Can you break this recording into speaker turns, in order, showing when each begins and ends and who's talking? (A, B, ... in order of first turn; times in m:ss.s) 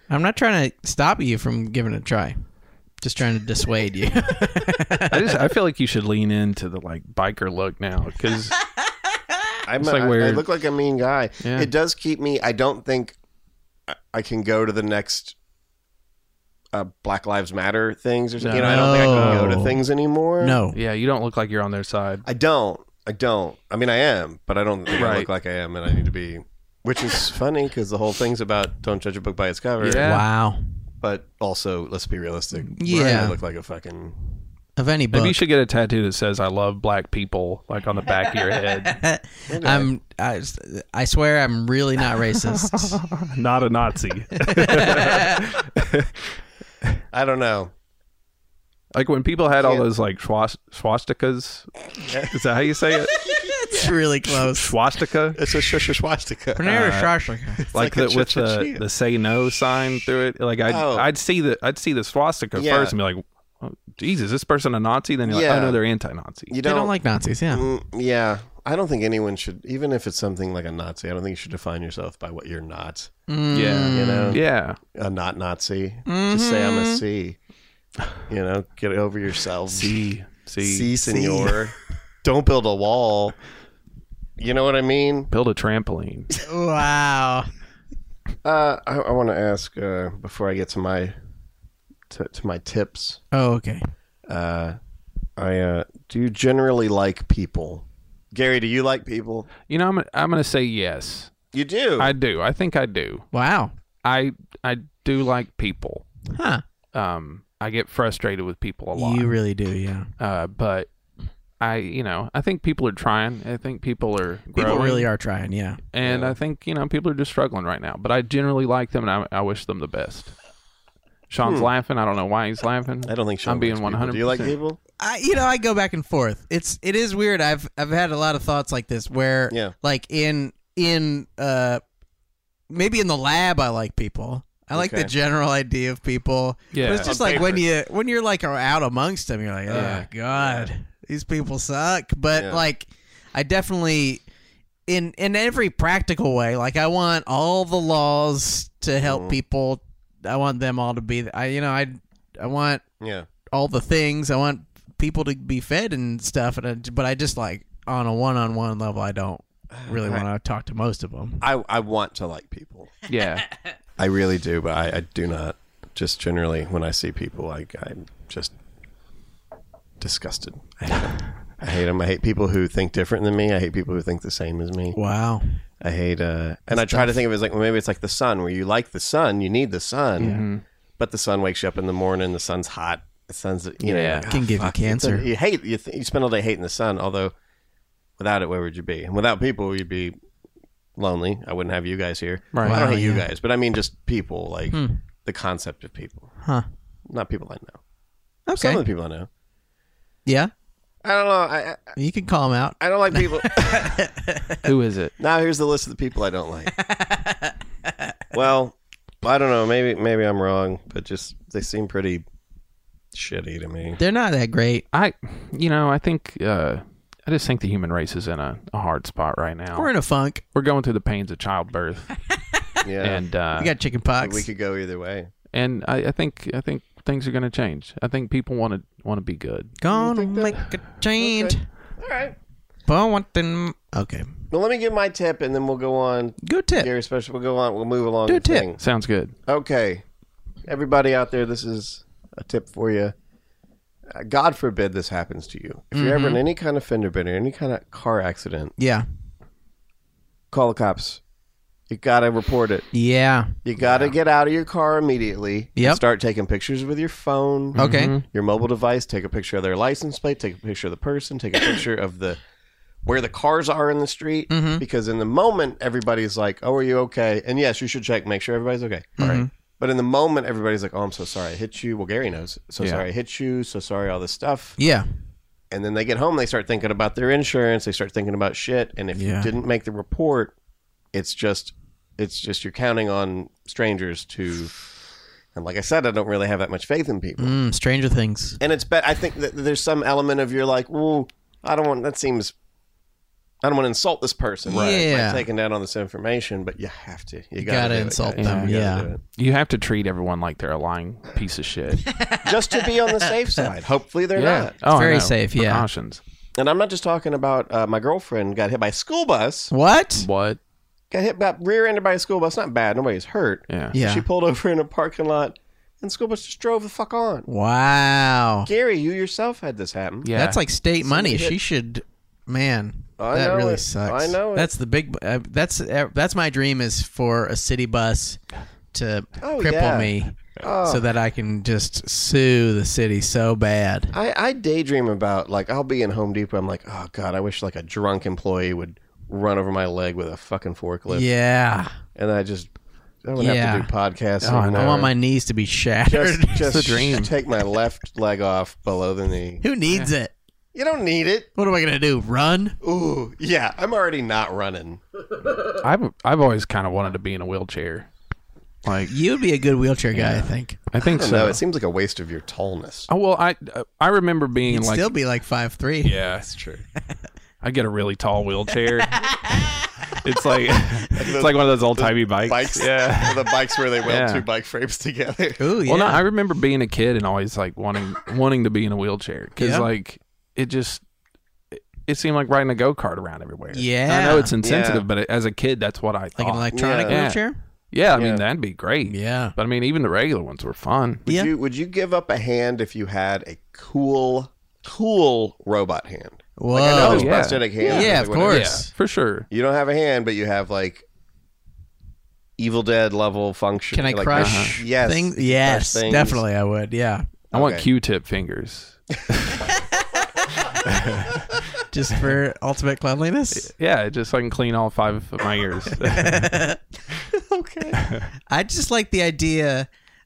0:00.1-0:02.4 A
0:03.0-0:05.4 A
0:05.1-0:08.6 B
0:09.6-0:13.2 C
0:09.8-0:10.4 B
0:11.4-0:11.7 B
0:13.9-0:15.4 C
0:16.7-0:20.6 C
0:18.4-0:19.6 B
0:18.5-0:19.8 A
0:20.4-0:20.8 A
0:20.7-0:22.2 B
0:22.2-0:30.1 C
0:25.0-0:25.3 B
0:29.8-0:30.2 B
0:30.0-0:30.6 A
0:31.0-0:34.3 C
0:32.8-0:33.4 A
0:34.8-0:35.4 A
0:35.1-0:39.0 B
0:38.8-0:43.0 A
0:39.5-0:39.9 C
0:42.6-0:46.1 B
0:44.4-0:45.4 A
0:44.8-0:45.1 C
0:47.1-0:47.7 C
0:48.9-0:51.7 B
0:49.5-0:49.8 C
0:52.0-0:52.4 C
0:52.2-0:53.2 B
0:53.4-0:54.7 A
0:54.3-0:55.4 B
0:55.4-0:56.7 C
0:56.6-0:57.6 A
0:56.6-0:57.1 B
0:57.6-0:58.8 C
0:57.7-1:06.6 B
1:00.7-1:01.1 C
1:02.6-1:02.9 C
1:05.2-1:05.8 C
1:06.5-1:06.9 C
1:06.6-1:07.7 A
1:07.5-1:13.1 C
1:13.3-1:14.4 A
1:13.5-1:14.8 B
1:13.9-1:17.4 C
1:16.1-1:17.0 A
1:18.3-1:20.0 C
1:19.7-1:21.0 B
1:20.6-1:23.4 C
1:21.1-1:21.5 A
1:24.4-1:25.3 C
1:25.3-1:26.3 B
1:26.5-1:27.5 A
1:28.4-1:31.2 C
1:32.1-1:33.2 C
1:33.3-1:33.8 A
1:34.3-1:34.8 C
1:35.4-1:39.5 C
1:39.7-1:41.3 B
1:41.5-1:42.1 C
1:42.0-1:43.3 B
1:43.3-1:43.7 A
1:44.0-1:46.1 B
1:46.3-1:46.6 A
1:46.9-1:49.3 B
1:49.0-1:50.1 A
1:50.2-1:50.9 B
1:51.6-1:55.1 B
1:54.6-1:55.8 A
1:55.9-2:00.3 B
1:56.0-1:56.4 C
2:01.3-2:04.6 B
2:01.4-2:01.7 C
2:03.0-2:04.8 C
2:05.0-2:11.8 A
2:12.7-2:24.2 A
2:14.7-2:15.1 C
2:16.7-2:17.5 B
2:16.8-2:17.6 C
2:19.7-2:20.1 B
2:20.3-2:20.7 C
2:22.3-2:22.6 C
2:24.9-2:32.8 A
2:29.0-2:29.4 C
2:33.0-2:33.3 C
2:33.5-2:41.4 A
2:39.7-2:40.2 C
2:41.4-2:42.9 C
2:43.1-2:43.5 B
2:44.0-2:48.5 C
2:50.0-2:55.0 C
2:55.0-2:55.6 A
2:55.8-3:00.4 C
2:56.7-2:57.2 A
3:00.2-3:00.6 B
3:01.0-3:07.3 C
3:03.8-3:04.3 B
3:04.3-3:05.3 A
3:08.2-3:10.2 C
3:11.0-3:16.3 C
3:12.5-3:12.8 B
3:12.6-3:13.3 A
3:14.7-3:15.0 A
3:17.1-3:17.8 C
3:18.5-3:18.8 A
3:18.6-3:19.3 C
3:20.3-3:20.5 A
3:21.0-3:22.0 C
3:22.0-3:24.6 A
3:22.8-3:24.0 C
3:24.6-3:25.1 B
3:25.2-3:26.7 C
3:26.7-3:27.6 A
3:28.3-3:32.2 C
3:33.1-3:34.0 C
3:34.0-3:34.8 A
3:34.9-3:39.9 B
3:39.7-3:40.4 A
3:40.6-3:42.1 B
3:42.8-3:43.2 C
3:43.0-3:43.8 B
3:43.6-3:44.5 A
3:44.2-3:45.3 C
3:45.5-3:49.8 B
3:49.8-3:51.7 A
3:49.9-3:50.6 C
3:51.2-3:52.4 C
3:52.9-3:54.3 A
3:54.5-3:58.8 C
3:56.4-3:56.9 A
3:58.3-3:58.7 A
3:58.8-3:59.3 B
3:59.5-4:00.0 C
4:00.7-4:03.2 C
4:04.1-4:08.7 C
4:05.9-4:06.4 A
4:08.8-4:09.0 A
4:10.5-4:11.2 C
4:11.9-4:12.9 C
4:12.9-4:13.6 A
4:13.6-4:22.4 C
4:13.8-4:14.1 B
4:17.8-4:18.1 A
4:17.8-4:18.2 B
4:23.0-4:29.2 C
4:24.5-4:24.8 A
4:29.2-4:29.4 B
4:29.2-4:29.5 A
4:29.8-4:34.8 C
4:34.8-4:35.1 A
4:35.7-4:40.5 C
4:39.1-4:39.5 A
4:41.1-4:44.7 C
4:45.5-4:47.6 C
4:47.4-4:48.6 A
4:48.6-4:52.5 C
4:53.6-4:59.2 C
4:54.7-4:55.4 A
4:54.7-4:55.0 B
4:57.6-4:59.1 A
4:58.4-4:58.7 B
4:59.3-5:02.1 B
5:02.2-5:02.5 A
5:02.4-5:04.7 C
5:04.4-5:06.2 B
5:04.9-5:05.9 A
5:06.6-5:09.7 C
5:09.7-5:10.3 A
5:10.2-5:10.6 B
5:11.1-5:17.5 C
5:13.7-5:13.9 B
5:13.9-5:14.3 A
5:17.5-5:18.7 A
5:18.7-5:20.3 C
5:20.2-5:20.6 B
5:20.3-5:28.4 A
5:21.0-5:21.6 C
5:23.2-5:24.7 C
5:28.9-5:34.1 A
5:29.4-5:31.1 C
5:34.1-5:41.3 C
5:41.1-5:42.0 A
5:42.2-5:42.7 C
5:43.2-5:45.1 C
5:43.4-5:43.9 A
5:44.4-5:45.1 B
5:44.8-5:46.9 A
5:46.1-5:49.6 C
5:46.7-5:47.3 B
5:49.6-5:50.3 A
5:50.7-5:51.5 C
5:51.6-5:52.8 A
5:52.8-5:55.0 C
5:55.7-5:58.1 B
5:58.8-5:59.1 B
5:59.1-6:00.8 A
6:00.1-6:01.6 B
6:01.0-6:03.1 C
6:03.1-6:05.1 B
6:04.7-6:06.2 A
6:06.0-6:06.5 B
6:06.4-6:06.8 C
6:07.6-6:13.5 B
6:09.1-6:09.7 A
6:11.1-6:15.6 C
6:14.0-6:14.5 B
6:15.6-6:16.2 A
6:15.9-6:21.0 B
6:19.6-6:19.9 A
6:21.7-6:31.2 B
6:23.7-6:24.5 A
6:24.6-6:25.1 C
6:26.4-6:27.6 A
6:26.7-6:27.2 C
6:28.2-6:28.4 C
6:29.0-6:29.5 A
6:31.3-6:31.5 A
6:31.3-6:38.8 C
6:36.6-6:38.9 A
6:36.9-6:39.5 B
6:39.5-6:41.0 C
6:42.6-6:46.4 C
6:43.9-6:47.3 A
6:44.3-6:44.8 B
6:47.5-6:49.7 B
6:47.5-6:47.9 C
6:50.8-6:51.4 B
6:51.9-6:53.7 A
6:53.5-6:56.5 B
6:56.0-6:56.8 A
6:57.3-6:58.0 C
6:58.0-6:58.3 B
6:58.5-6:59.9 A